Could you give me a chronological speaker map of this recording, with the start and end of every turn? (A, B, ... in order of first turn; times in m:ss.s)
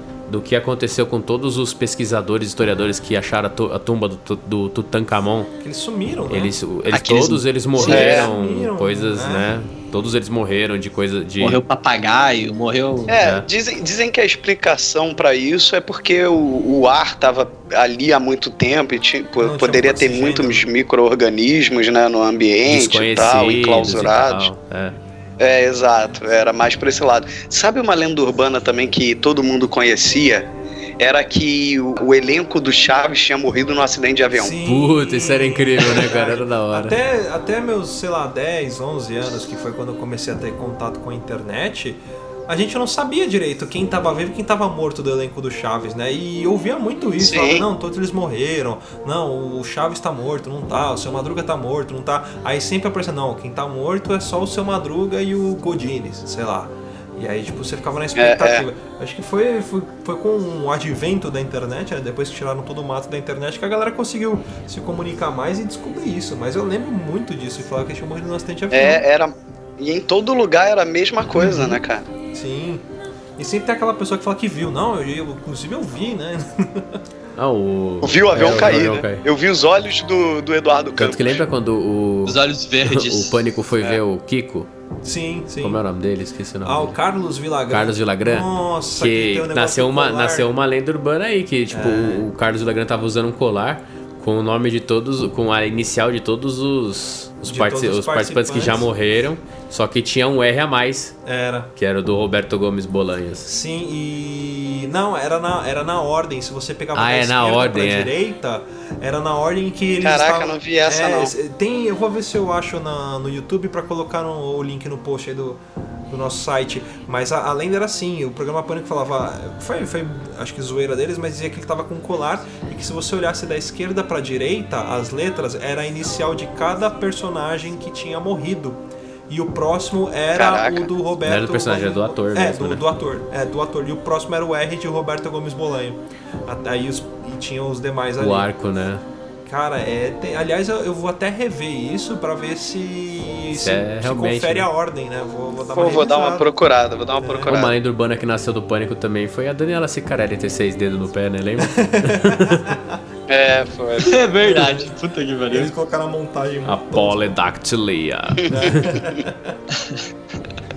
0:00.3-0:05.5 A
0:05.6-0:06.5 B
0:06.3-0:11.6 A
0:06.9-0:07.4 C
0:07.8-0:09.5 B
0:07.8-0:08.3 D
0:11.4-0:13.1 C
0:13.1-0:13.5 A
0:13.1-0:24.5 D
0:19.4-0:20.6 B
0:22.7-0:25.0 A
0:25.4-0:34.5 D
0:34.3-1:09.0 B
0:34.6-0:37.0 A
0:47.2-0:47.6 D
0:58.2-0:58.6 D
1:08.7-1:12.1 D
1:11.3-1:11.8 B
1:12.3-1:12.8 B
1:13.4-1:17.0 B
1:17.4-1:19.2 A
1:18.0-1:21.4 D
1:21.0-1:24.7 A
1:22.2-1:23.4 C
1:25.0-1:25.8 B
1:25.6-1:26.9 A
1:26.6-1:30.5 B
1:27.7-1:41.2 A
1:31.7-1:32.2 B
1:37.4-1:38.9 B
1:41.2-1:41.7 B
1:41.8-1:43.5 A
1:43.4-2:18.5 B
1:46.9-1:48.1 A
1:50.0-1:51.3 D
2:10.3-2:10.9 D
2:11.2-2:12.8 A
2:18.2-2:19.0 A
2:19.4-2:26.4 B
2:23.5-2:24.7 A
2:25.8-2:27.8 D
2:27.2-2:27.5 B
2:27.4-2:32.6 A
2:31.7-2:32.8 B
2:33.3-2:34.2 D
2:34.0-2:35.7 C
2:34.4-2:34.9 B
2:35.5-2:37.4 B
2:36.6-2:39.0 A
2:38.5-2:39.3 B